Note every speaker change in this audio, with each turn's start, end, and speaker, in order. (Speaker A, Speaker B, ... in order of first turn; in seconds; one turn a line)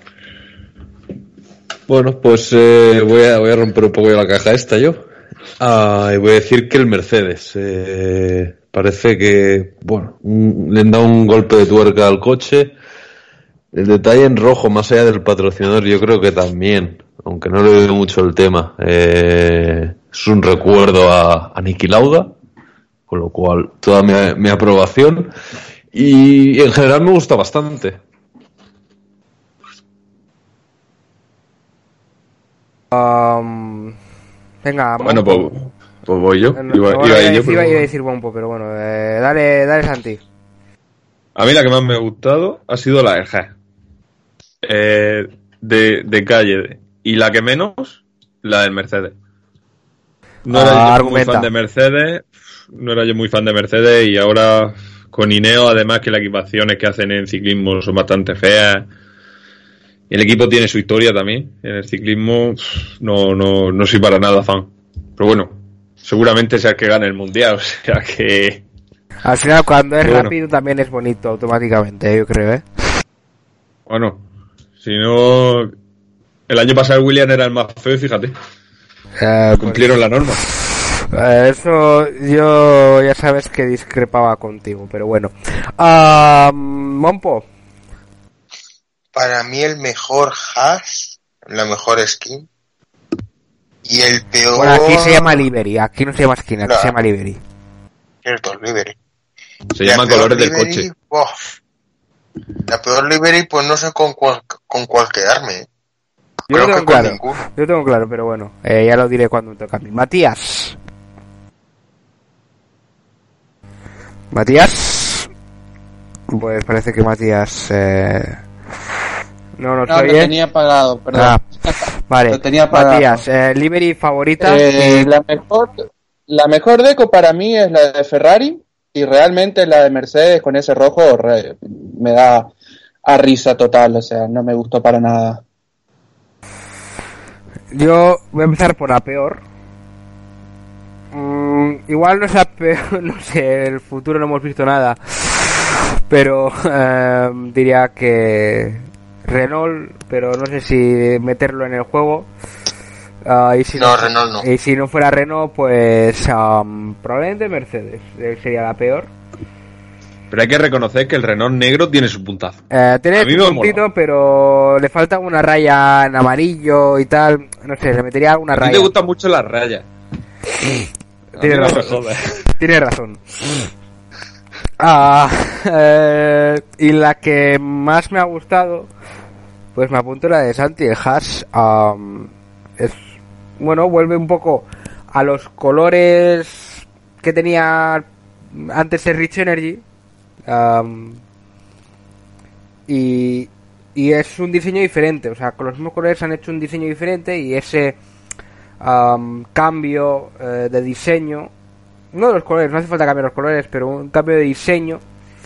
Speaker A: 1.9-5.0
Speaker A: 5.6-12.8
Speaker A: 13.7-22.4
Speaker A: 23.1-25.3
Speaker A: 25.9-28.0
Speaker B: 32.9-34.0
Speaker B: 34.6-35.5
Speaker C: 35.0-37.9
Speaker B: 36.5-40.2
Speaker C: 41.4-43.5
Speaker C: 44.6-49.1
Speaker C: 50.5-58.9
Speaker B: 50.5-51.5
Speaker C: 60.1-68.6
Speaker B: 69.2-72.6
Speaker C: 70.0-70.3
Speaker C: 73.9-74.2
Speaker C: 74.8-75.7
Speaker C: 76.5-78.3
Speaker B: 79.2-79.9
Speaker C: 79.6-80.4
Speaker B: 81.1-87.5
Speaker D: 89.2-92.5
Speaker D: 93.8-95.4
Speaker B: 94.6-97.4
Speaker D: 96.7-97.0
Speaker D: 98.2-99.0
Speaker C: 99.7-100.9
Speaker D: 99.8-101.3
Speaker D: 102.7-105.7
Speaker D: 106.5-107.4
Speaker B: 106.5-110.8
Speaker B: 114.3-115.3
Speaker B: 116.3-118.4
Speaker B: 119.6-120.4
Speaker E: 119.9-121.8
Speaker B: 121.1-121.4
Speaker B: 122.1-125.1
Speaker E: 122.3-123.2
Speaker E: 124.4-132.5
Speaker E: 133.1-135.4
Speaker B: 137.7-139.4
Speaker B: 141.1-152.3
Speaker B: 153.2-159.1
Speaker D: 153.8-154.4
Speaker C: 160.3-162.6
Speaker B: 162.7-168.9
Speaker C: 163.2-163.8
Speaker C: 168.5-169.9
Speaker B: 171.4-173.6
Speaker C: 171.4-172.3
Speaker B: 174.8-178.9
Speaker B: 179.8-183.0
Speaker B: 183.6-189.8
Speaker B: 190.5-191.2
Speaker B: 192.9-198.0
Speaker B: 198.8-201.5
Speaker B: 202.1-205.0